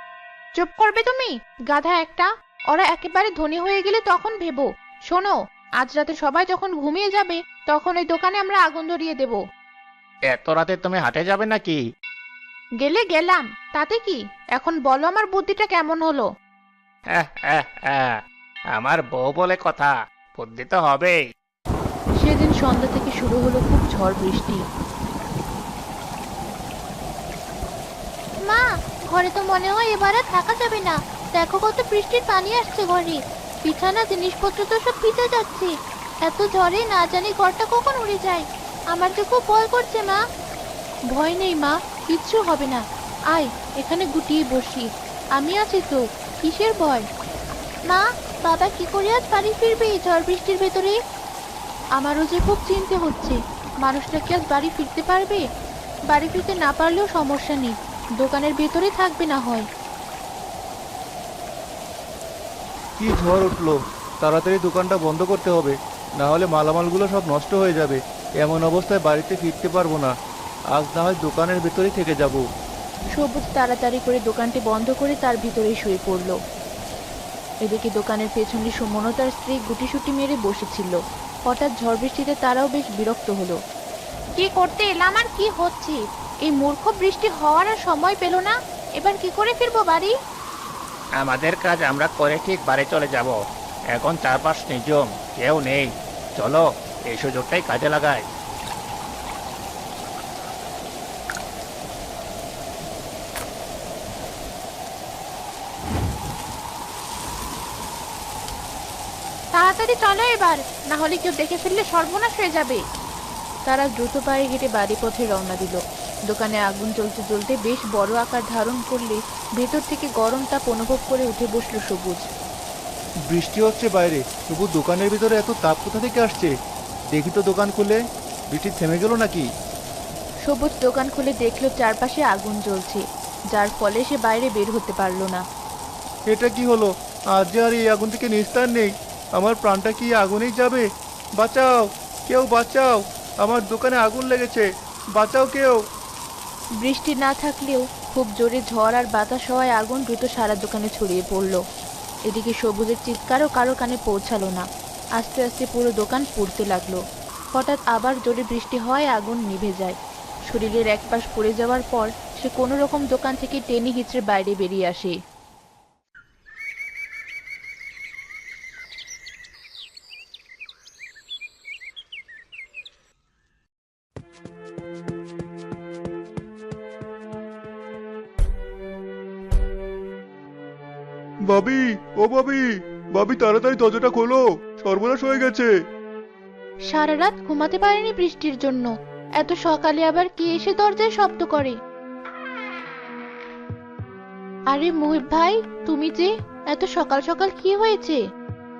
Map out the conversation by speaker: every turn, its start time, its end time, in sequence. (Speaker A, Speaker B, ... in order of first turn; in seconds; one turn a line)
Speaker A: 0.6-9.4
Speaker B: 10.3-11.8
Speaker A: 12.8-16.3
Speaker B: 17.1-18.1
Speaker B: 18.8-21.2
Speaker A: 22.2-24.6
Speaker A: 28.4-35.7
Speaker A: 36.2-40.2
Speaker A: 41.1-47.0
Speaker A: 47.9-51.0
Speaker A: 52.0-55.4
Speaker A: 56.1-59.6
Speaker C: 63.0-70.1
Speaker C: 70.7-72.4
Speaker A: 73.2-76.4
Speaker A: 77.6-83.6
Speaker A: 84.3-90.1
Speaker B: 91.2-93.3
Speaker B: 93.9-98.2
Speaker A: 109.5-112.8
Speaker A: 113.7-122.3
Speaker C: 123.3-126.5
Speaker C: 127.1-128.0
Speaker C: 128.5-129.4
Speaker A: 130.5-135.4
Speaker C: 136.3-140.8
Speaker C: 141.4-145.8
Speaker A: 146.8-151.6
Speaker A: 152.3-154.7
Speaker A: 155.2-157.0
Speaker A: 157.5-159.9
Speaker A: 160.5-165.2
Speaker C: 181.5-185.7
Speaker A: 186.9-191.8
Speaker A: 194.7-198.2